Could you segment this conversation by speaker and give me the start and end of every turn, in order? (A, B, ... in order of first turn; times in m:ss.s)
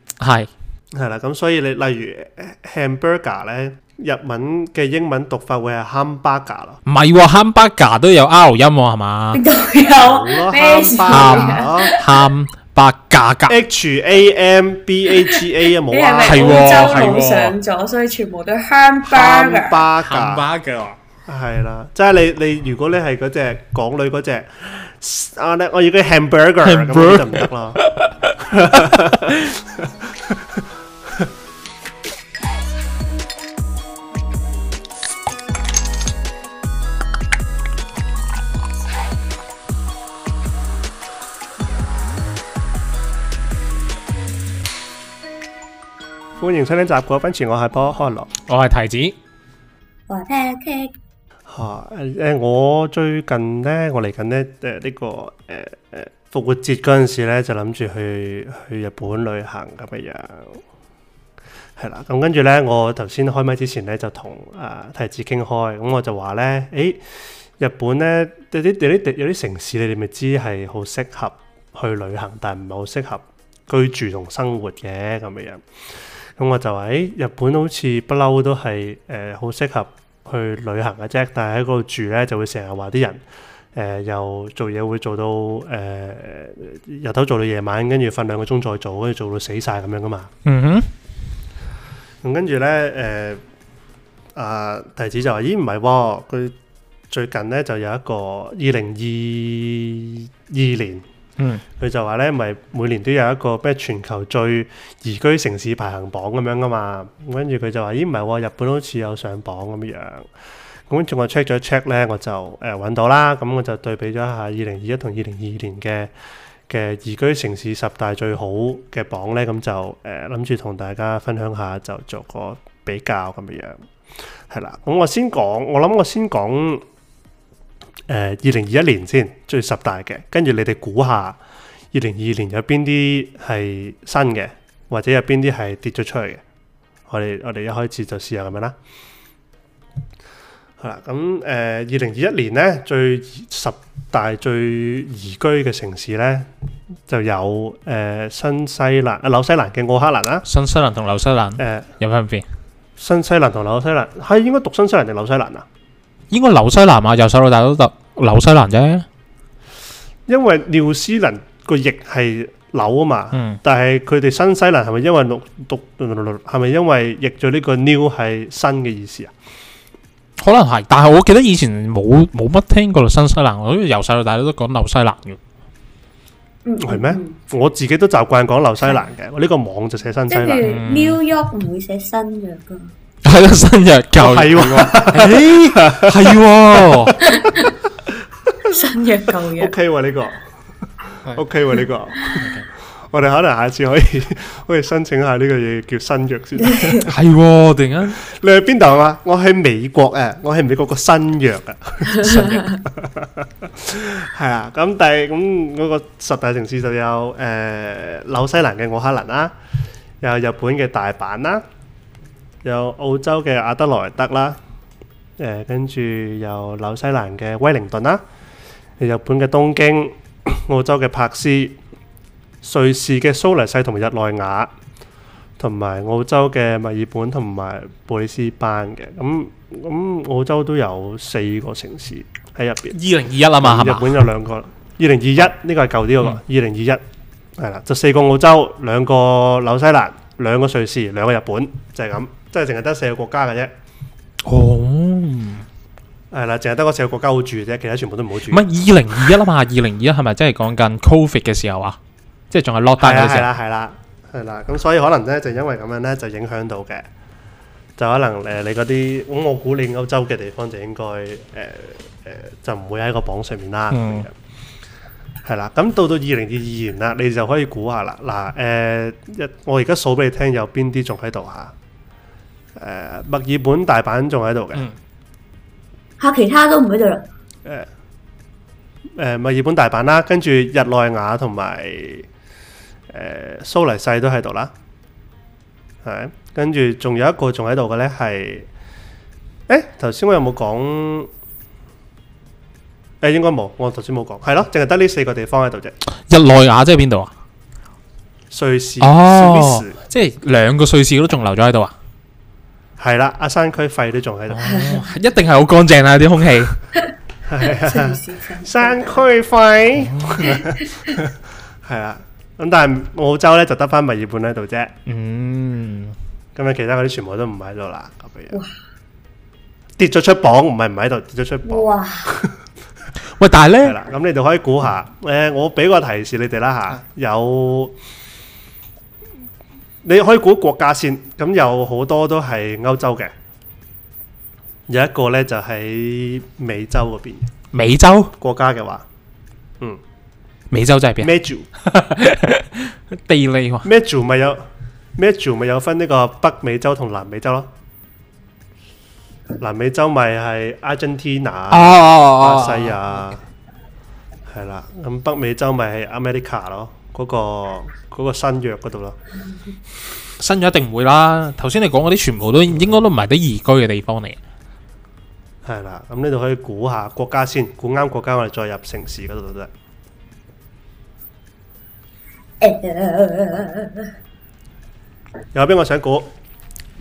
0:00.2-0:00.5 A
0:00.9-0:06.8 B
0:06.9-0:09.4 A
0:09.3-0:12.2 C
0:10.0-0:11.9 B
0:11.1-0:13.6 A
0:13.5-0:17.1 B
0:15.1-0:15.4 C
0:15.9-0:19.9 C
0:16.2-0:17.5 A
0:19.0-0:20.4 B
0:20.0-0:21.0 A
0:21.3-0:27.8 B
0:26.6-0:28.4 A
0:28.4-0:30.6 B
0:46.4-0:48.3 B
0:48.5-0:49.2 A
0:50.1-0:50.9 C
0:51.5-1:00.6 B
1:01.8-1:07.0 B
1:07.6-1:15.6 B
1:16.4-1:23.2 B
1:23.7-1:30.3 B
1:30.4-1:30.9 A
1:32.2-1:33.4 B
1:34.4-1:36.6 B
1:37.1-1:41.0 B
1:41.8-1:50.3 B
1:50.9-1:56.1 B
1:56.7-2:03.8 B
2:04.5-2:06.8 B
2:08.1-2:11.4 B
2:11.9-2:16.4 B
2:17.1-2:18.8 B
2:20.8-2:26.5 B
2:27.1-2:30.5 B
2:30.5-2:32.4 A
2:31.6-2:31.9 B
2:33.0-2:35.7 B
2:36.3-2:39.1 A
2:40.3-2:49.3 B
2:43.3-2:43.6 A
2:50.4-2:55.4 A
2:56.6-2:57.3 C
2:56.8-3:00.7 B
3:00.3-3:02.9 C
3:00.6-3:01.2 A
3:03.2-3:07.2 A
3:04.2-3:07.5 B
3:07.2-3:07.7 C
3:08.7-3:09.7 C
3:09.6-3:10.4 B
3:11.2-3:12.5 B
3:13.1-3:17.1 B
3:16.7-3:17.0 C
3:17.0-3:18.2 A
3:18.2-3:29.5 B
3:22.2-3:22.8 C
3:22.2-3:22.7 A
3:30.2-3:31.6 B
3:32.6-3:34.6 B
3:35.4-3:38.2 B
3:39.0-3:41.8 B
3:42.6-3:44.7 B
3:45.6-3:53.0 B
3:52.9-3:54.2 A
3:53.6-3:57.0 B
3:57.6-4:03.7 B
4:04.4-4:05.6 A
4:06.3-4:08.6 B
4:08.5-4:12.0 A
4:12.5-4:13.5 A
4:13.0-4:17.1 B
4:18.0-4:24.4 B
4:23.9-4:24.2 A
4:25.4-4:31.7 B
4:32.8-4:34.9 B
4:36.2-4:37.3 C
4:39.2-4:42.3 B
4:43.1-4:44.7 B
4:46.0-4:48.7 B
4:49.7-4:51.3 B
4:53.2-4:55.9 B
4:56.3-4:57.3 A
4:58.5-5:00.0 B
4:59.0-5:01.9 A
5:03.0-5:05.0 B
5:04.5-5:06.8 A
5:04.6-5:05.1 C
5:07.4-5:14.9 B
5:07.6-5:09.2 C
5:10.0-5:10.5 A
5:10.5-5:11.1 C
5:15.1-5:16.1 A
5:16.6-5:18.6 B
5:20.0-5:22.6 B
5:21.7-5:22.3 C
5:23.4-5:24.0 A
5:23.8-5:27.9 B
5:30.0-5:33.3 B
5:34.9-5:37.5 B
5:37.7-5:38.3 A
5:38.4-5:39.0 B
5:40.7-5:43.9 A
5:41.2-5:41.7 B
5:43.8-5:44.6 B
5:45.2-5:47.7 B
5:49.6-5:53.4 B
5:51.7-5:53.0 A
5:54.5-5:59.2 B
6:00.4-6:04.4 A
6:05.6-6:09.7 B
6:12.6-6:14.1 C
6:15.5-6:16.3 B